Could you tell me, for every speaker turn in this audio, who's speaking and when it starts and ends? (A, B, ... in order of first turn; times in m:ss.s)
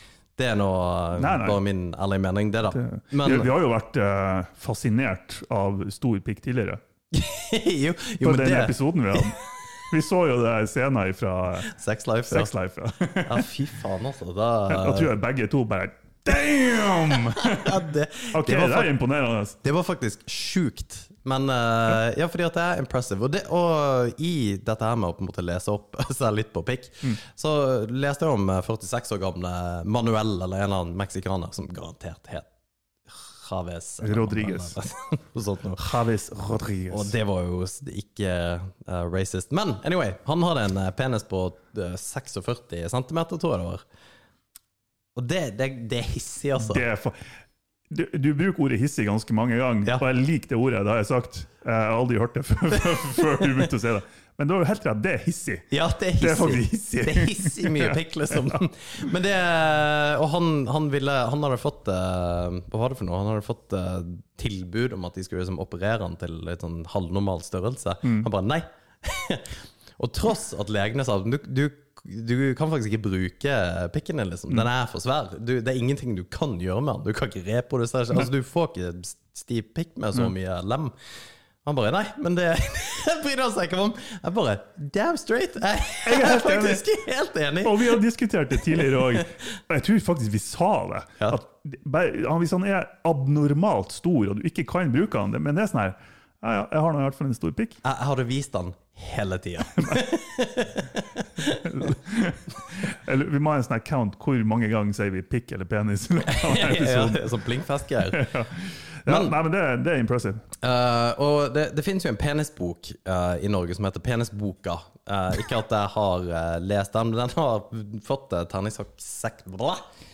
0:00.4-0:03.5 A
0:01.2-0:01.6 B
0:02.7-0:06.8 B
0:07.1-0:09.3 A
0:08.2-0:11.7 B
0:11.7-0:12.5 A
0:12.3-0:13.5 B
0:13.2-0:15.1 A
0:14.7-0:17.8 B
0:17.3-0:18.9 A
0:18.3-0:19.6 B
0:19.6-0:32.5 A
0:33.1-0:35.8 A
0:34.0-0:34.8 B
0:35.8-0:37.1 B
0:36.9-0:43.8 A
0:45.2-0:46.8 A
0:46.6-0:47.2 B
0:47.9-0:55.7 B
0:55.7-1:20.9 A
0:56.2-0:58.6 B
1:21.6-1:28.0 A
1:26.0-1:26.8 B
1:27.6-1:37.8 B
1:28.7-1:29.2 A
1:37.8-1:41.9 A
1:41.5-1:47.3 B
1:46.3-1:48.2 A
1:48.1-1:50.4 B
1:49.1-1:49.3 A
1:50.6-1:59.8 A